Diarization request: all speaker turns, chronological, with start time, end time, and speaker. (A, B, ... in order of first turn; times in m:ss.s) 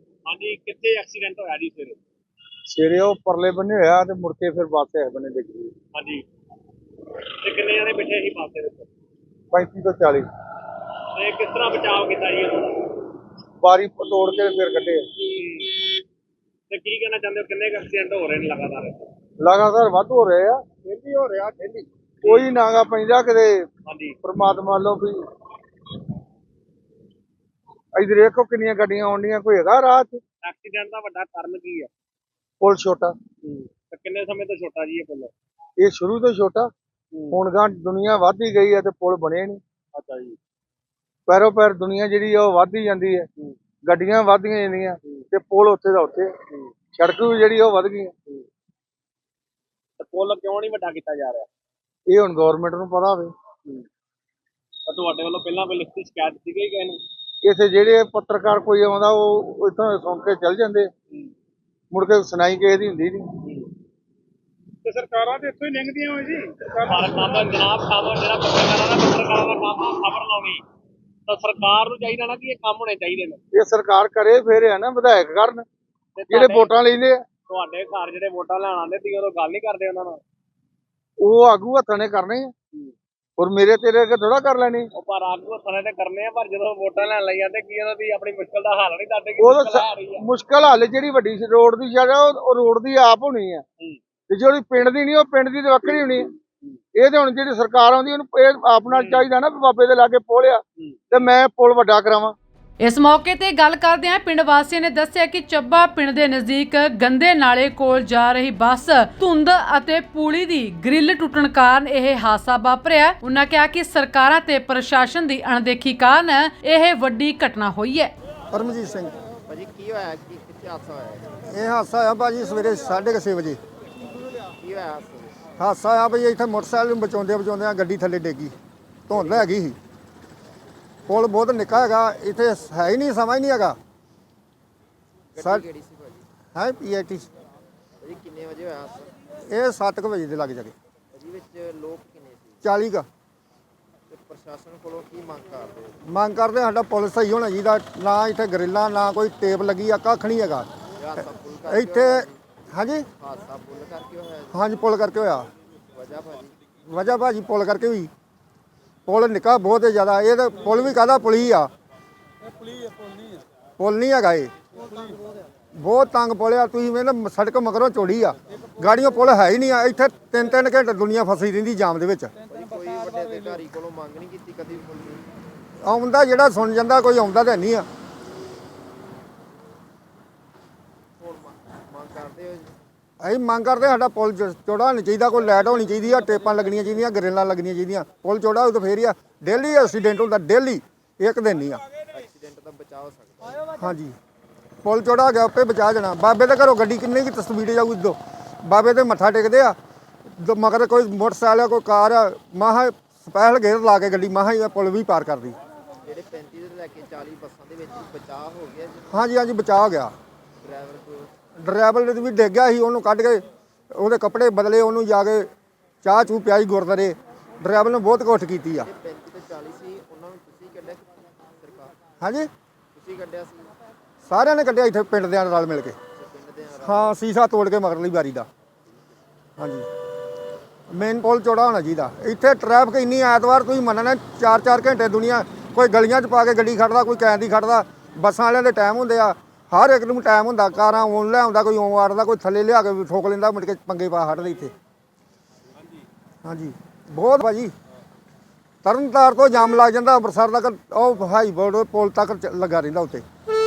0:00.2-0:02.0 A
0:02.7-0:05.7 B
0:05.9-0:06.2 A
0:07.4-0:08.9 A
0:09.5-0:10.3 B
0:11.0-0:13.0 A
0:13.6-0:15.0 B
0:15.3-0:16.0 A
0:16.7-0:19.1 A
0:19.4-0:20.6 B
0:20.8-0:21.8 C
0:22.2-0:23.6 B
0:22.2-0:22.5 A
0:23.8-0:24.2 A
0:24.2-0:25.2 B
0:27.9-0:30.2 B
0:30.4-0:31.9 A
0:32.6-0:33.1 B
0:33.4-0:35.3 A
0:35.8-0:36.7 B
0:37.1-0:37.4 A
0:37.3-0:39.6 B
0:39.9-0:40.4 A
0:41.3-0:43.3 B
0:43.8-0:46.3 B
0:46.9-0:48.2 B
0:50.0-0:51.5 A
0:52.1-0:53.3 B
0:54.9-0:57.0 A
0:57.4-1:00.9 B
1:01.9-1:03.3 B
1:03.4-1:03.7 A
1:04.8-1:10.6 A
1:11.3-1:13.4 A
1:13.5-1:15.6 B
1:16.2-1:16.7 A
1:16.3-1:17.2 B
1:17.5-1:20.2 A
1:21.2-1:22.5 B
1:23.4-1:24.9 B
1:24.9-1:30.2 A
1:29.4-1:33.6 B
1:34.3-1:36.3 B
1:37.0-1:42.3 B
1:38.9-1:39.3 A
1:40.8-1:41.2 A
1:42.8-1:58.1 D
1:58.5-1:59.1 C
1:59.5-2:01.4 E
2:01.5-2:03.6 C
2:04.3-2:05.4 E
2:05.6-2:08.6 C
2:09.1-2:09.8 C
2:11.1-2:13.8 C
2:15.3-2:16.3 E
2:16.5-2:17.3 C
2:18.0-2:19.2 E
2:19.4-2:20.7 C
2:21.1-2:22.6 E
2:22.6-2:23.0 C
2:24.1-2:26.0 E
2:26.0-2:30.7 C
2:31.0-2:32.4 E
2:31.7-2:33.1 C
2:33.1-2:34.6 E
2:34.5-2:35.5 C
2:35.9-2:36.6 E
2:36.9-2:38.1 C
2:39.1-2:41.7 C
2:43.8-2:44.5 C
2:45.7-2:52.3 C
2:52.5-2:55.2 E
2:55.8-2:57.8 C
3:01.2-3:02.7 E
3:03.2-3:11.8 C
3:12.1-3:13.7 E
3:13.7-3:14.1 C
3:14.8-3:19.8 C
3:20.3-3:25.6 C
3:26.0-3:29.3 E
3:29.1-3:30.1 C
3:30.6-3:31.3 E
3:31.6-3:35.5 C
3:36.0-3:38.9 C
3:38.8-3:42.0 E
3:42.2-3:42.5 C
3:42.9-3:43.7 E
3:44.2-3:46.0 C
3:46.1-3:47.2 E
3:46.8-3:48.5 C
3:49.6-3:49.9 C
3:50.9-4:04.7 C
4:06.4-4:07.7 C
4:08.8-4:13.2 C